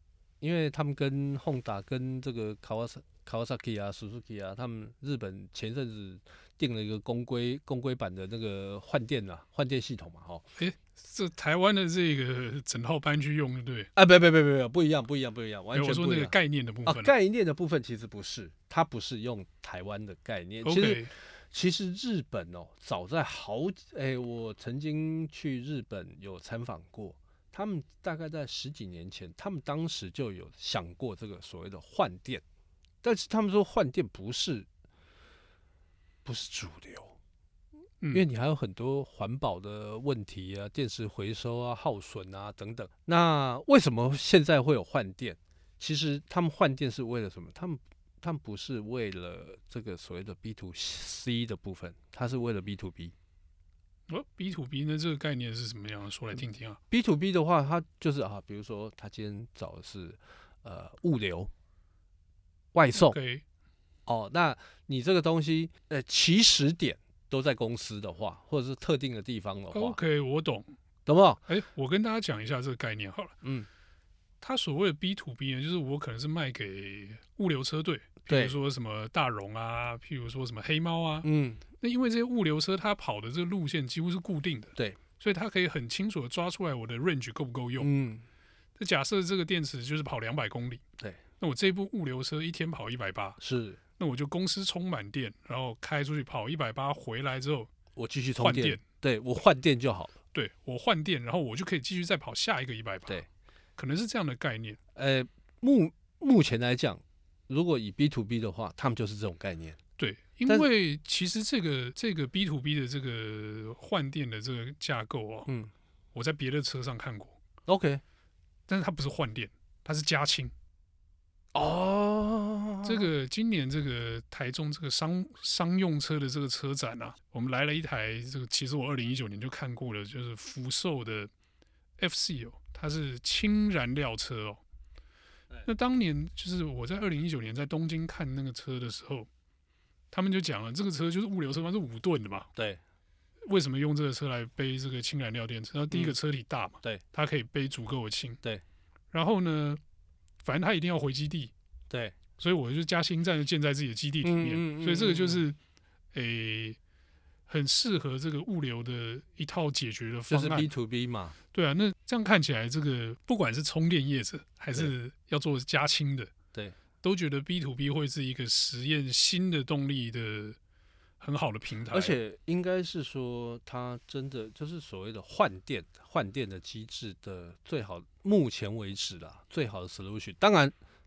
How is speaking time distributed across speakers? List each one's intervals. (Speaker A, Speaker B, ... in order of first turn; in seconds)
Speaker A: 0.4-10.4, 14.0-32.4, 33.0-34.7, 36.2-37.2, 38.1-53.1, 56.9-61.5, 62.7-63.2, 64.1-70.0, 71.1-71.4, 73.4-73.7, 78.3-78.5, 81.2-81.6, 87.8-88.3, 93.4-93.8, 98.0-100.2, 105.0-109.8, 115.5-115.7, 117.7-118.0, 121.5-123.1, 142.6-142.8, 151.9-152.2, 154.2-155.4, 160.3-161.4, 171.9-180.7
Speaker B: 10.6-13.9, 15.7-17.1, 20.6-21.1, 54.1-56.8, 62.9-63.4, 69.7-70.7, 71.5-73.4, 74.4-81.3, 81.8-87.9, 88.8-90.8, 91.4-93.4, 94.0-97.7, 98.4-98.8, 100.3-103.2, 103.8-104.8, 110.0-115.5, 116.1-117.4, 118.7-120.5, 122.8-131.3, 132.0-134.6, 135.7-139.3, 140.1-142.5, 143.4-148.4, 149.1-149.8, 150.4-151.5, 152.4-155.6, 156.1-156.8, 157.5-160.7, 161.5-166.3, 167.0-170.6, 171.2-172.2